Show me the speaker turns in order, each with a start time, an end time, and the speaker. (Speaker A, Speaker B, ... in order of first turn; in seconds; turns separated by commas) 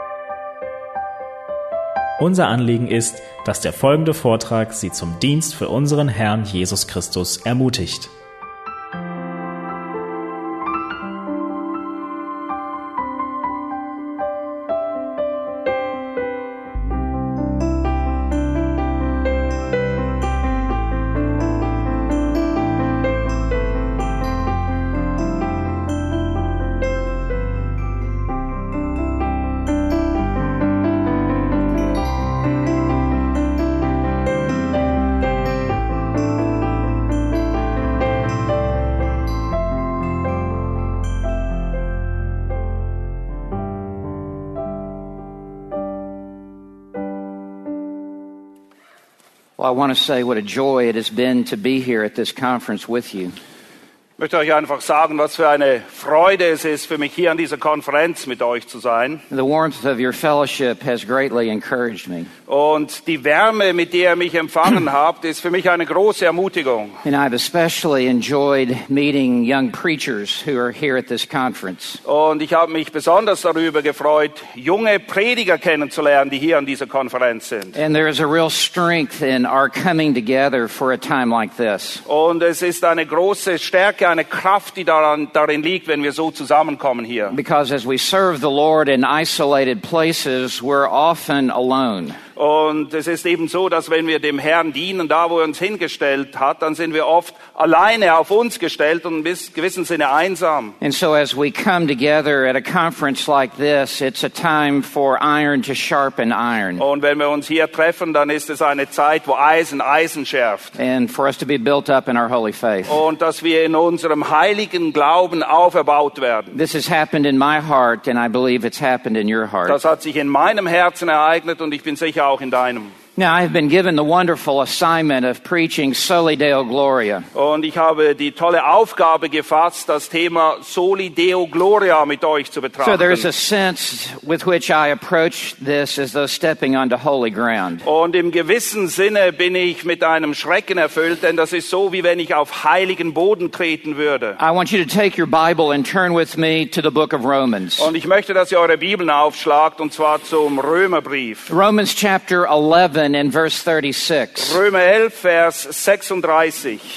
Speaker A: 2.2-8.1, Speaker B: 49.6-53.3, Speaker C: 54.2-59.2, Speaker B: 59.3-62.3, Speaker C: 62.5-67.0, Speaker B: 67.0-72.0, Speaker C: 72.0-77.8, Speaker B: 77.8-82.0, Speaker C: 82.1-87.3, Speaker B: 87.3-92.2, Speaker C: 92.4-100.8, Speaker B: 100.8-106.8, Speaker C: 106.8-110.7, Speaker B: 110.8-113.0, Speaker C: 112.9-116.5, Speaker B: 116.5-119.8, Speaker C: 119.7-122.9, Speaker B: 123.2-127.3, Speaker C: 127.3-133.3, Speaker B: 132.8-137.8, Speaker C: 137.8-144.4, Speaker B: 144.4-147.9, Speaker C: 147.8-151.5, Speaker B: 151.5-154.6, Speaker C: 154.4-156.8